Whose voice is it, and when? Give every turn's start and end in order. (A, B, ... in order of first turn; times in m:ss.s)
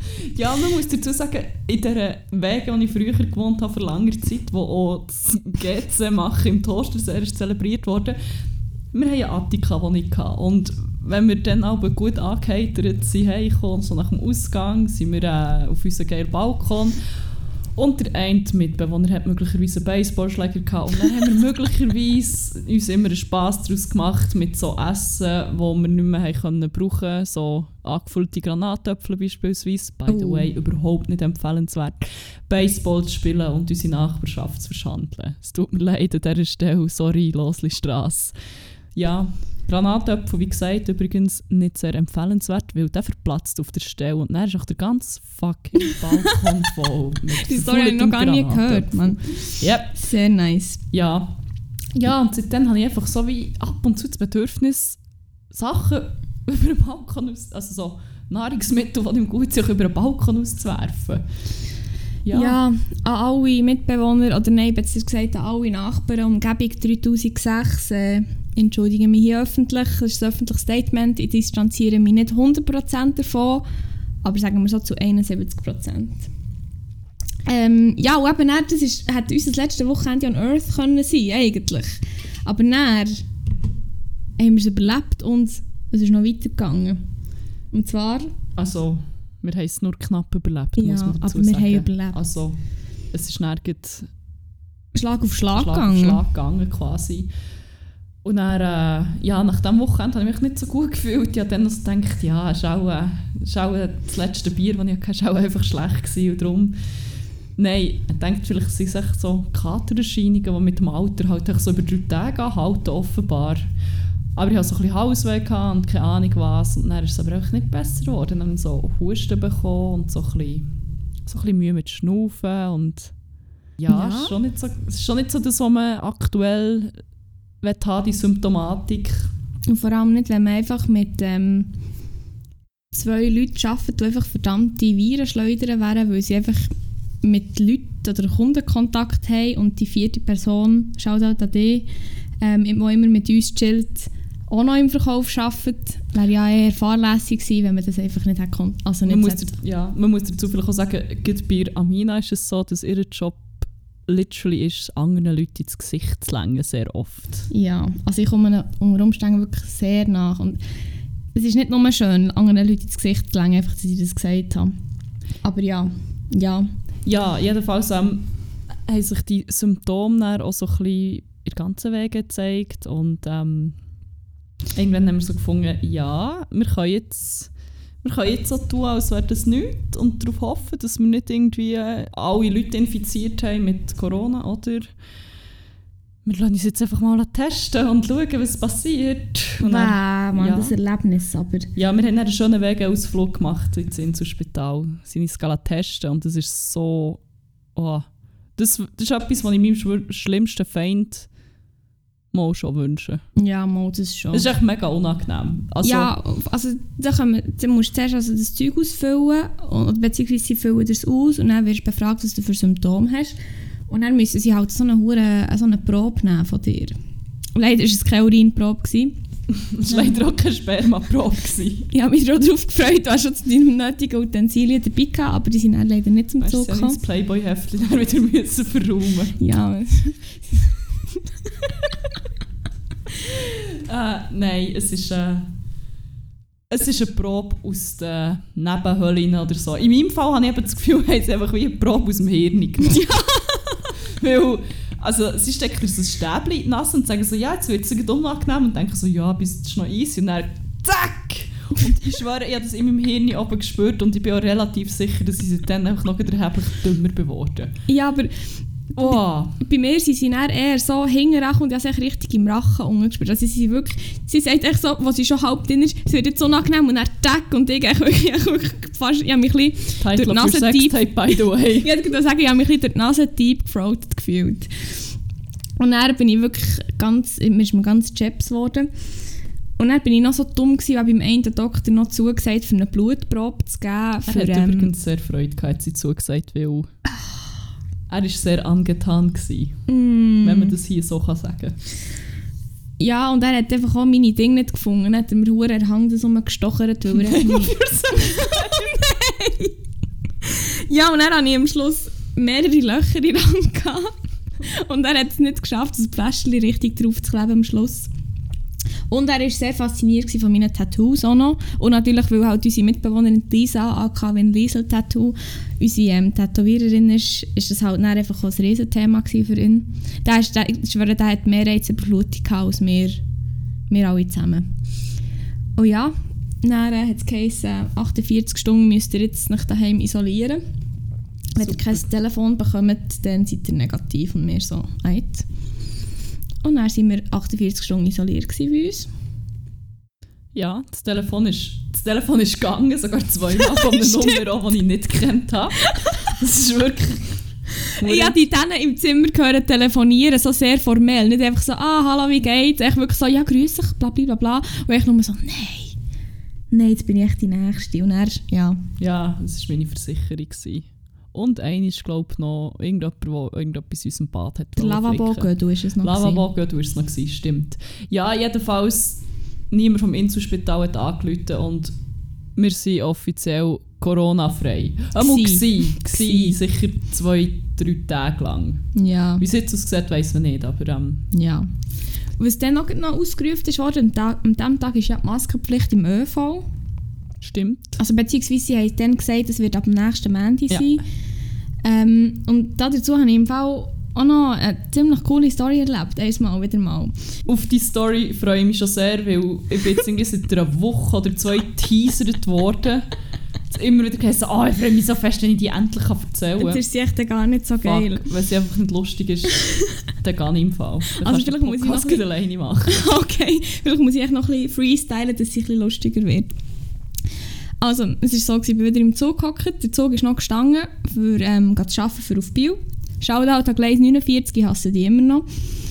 0:00.2-0:08.2 A
0:08.9-0:17.0 A
0:17.8-0:38.4 A
0:30.1-0:30.5 B
0:39.0-0:50.0 A
0:45.8-0:46.4 B
0:47.3-0:50.8 B
0:50.9-0:51.4 A
0:52.0-0:55.0 A
0:55.5-1:01.2 A
1:02.2-1:02.6 A
1:02.3-1:13.6 B
1:14.2-1:16.3 B
1:17.5-1:23.2 B
1:24.4-1:27.0 B
1:27.7-1:28.3 B
1:28.6-1:32.6 A
1:30.8-1:32.2 B
1:33.1-1:34.1 A
1:35.0-1:36.2 B
1:35.6-1:37.3 A
1:38.2-1:46.8 A
1:47.6-1:53.6 A
1:54.4-2:00.7 A
2:01.3-2:03.1 A
2:03.8-2:07.0 A
2:03.9-2:04.4 B
2:07.6-2:09.3 A
2:09.7-2:11.7 B
2:12.9-2:16.7 B
2:17.2-2:21.9 B
2:22.4-2:29.5 B
2:29.1-2:37.5 A
2:37.5-2:40.6 B
2:41.4-2:44.7 B
2:45.4-2:46.7 B
2:47.0-2:48.3 A
2:48.9-2:53.8 A
2:54.7-2:57.5 A
2:58.0-3:04.9 A
3:06.2-3:10.8 A
3:09.6-3:11.7 B
3:11.8-3:17.2 A
3:17.8-3:21.3 A
3:22.3-3:23.2 A
3:23.4-3:24.5 B
3:24.3-3:26.1 A
3:25.8-3:33.4 B
3:33.9-3:37.0 B
3:37.6-3:39.2 B
3:39.5-3:41.9 A
3:39.9-3:40.2 B
3:41.9-3:47.0 B
3:46.4-3:49.4 A
3:49.4-3:50.8 B
3:51.6-3:52.0 B
3:53.2-3:55.5 A
3:56.7-4:03.3 A
4:02.8-4:03.8 B
4:04.0-4:17.7 A
4:17.9-4:18.3 B
4:19.0-4:35.0 B
4:19.0-4:19.6 A
4:30.0-4:31.9 A
4:35.8-4:38.9 B
4:39.8-4:44.9 B
4:44.2-4:46.9 A
4:48.1-4:49.8 A
4:49.9-4:50.8 B
4:50.4-4:51.8 A
4:53.0-4:59.8 B
4:57.2-4:58.9 A
5:00.4-5:04.1 B
5:04.6-5:08.1 B
5:09.1-5:23.2 B
5:23.9-5:24.7 B
5:25.8-5:30.6 B
5:31.6-5:35.5 B
5:31.6-5:32.0 A
5:36.6-5:39.1 B
5:40.5-5:47.4 A
5:43.6-5:44.4 B
5:45.9-5:46.2 B
5:48.0-5:56.0 B
5:48.0-5:48.4 A
5:56.7-5:58.8 B
5:59.0-6:11.9 A
6:04.8-6:06.4 B
6:12.6-6:18.9 A
6:15.2-6:16.6 B
6:19.0-6:19.4 B
6:19.4-6:21.3 A
6:21.3-6:21.7 B
6:22.4-6:26.7 B
6:27.4-6:28.0 A
6:28.0-6:31.0 B
6:30.7-6:31.0 A
6:31.8-6:37.2 B
6:37.5-6:43.0 A
6:43.7-6:46.8 A
6:46.6-6:48.2 B
6:47.8-6:49.6 A
6:50.2-6:53.0 A
6:51.1-6:52.2 B
6:52.8-6:56.6 B
6:57.8-7:05.5 B